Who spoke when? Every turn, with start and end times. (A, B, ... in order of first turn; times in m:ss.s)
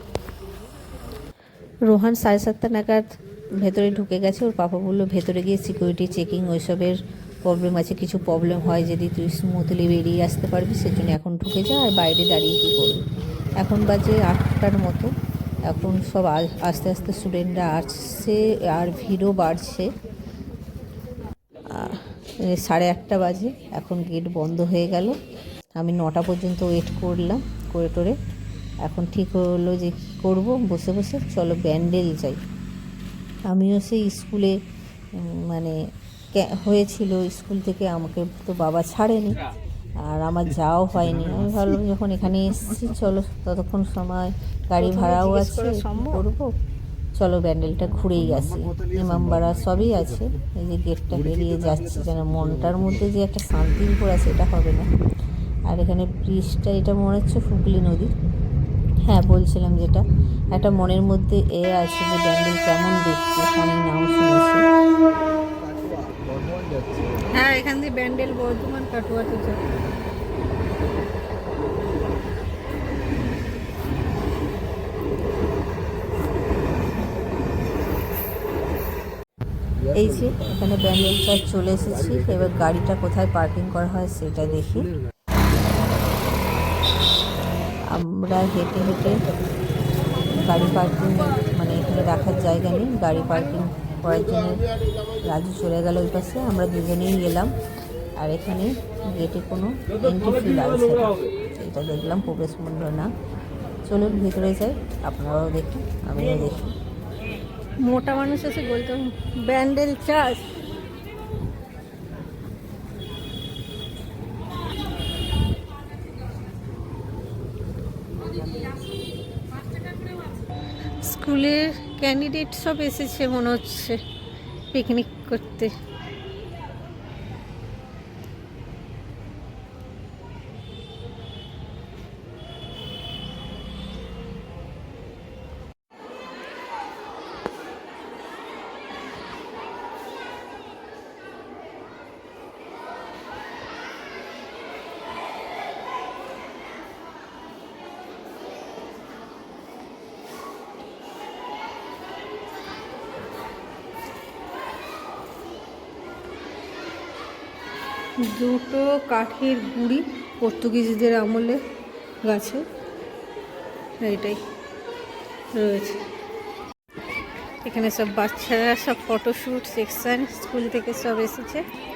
0:01.8-0:15.1 A
0:15.6-0:19.9 A
0:21.7-0:25.2 A
0:25.8-0:28.2 A
0:28.8-0:32.4 A
0:33.5-0:34.6 A
0:35.2-0:35.8 A
0:36.3-0:39.4 A
0:40.0-0:46.5 A
0:44.8-0:46.2 B
0:47.2-0:54.9 A
0:48.2-0:49.3 C
0:51.3-0:52.1 C
0:55.7-0:58.1 A
0:59.0-1:04.6 A
1:05.6-1:07.3 C
1:07.3-1:09.6 B
1:19.8-1:20.5 C
1:19.9-1:24.9 A
1:27.8-1:29.3 A
1:30.3-1:34.6 A
1:35.2-1:37.5 A
1:38.2-1:43.1 A
1:43.8-1:46.7 A
1:47.8-1:50.4 B
1:59.7-2:00.0 B
2:01.0-2:04.0 B
2:04.7-2:05.7 B
2:38.2-2:41.6 B
2:42.2-2:42.6 B
2:44.0-2:44.4 B
2:45.5-2:46.0 B
2:47.6-2:51.6 B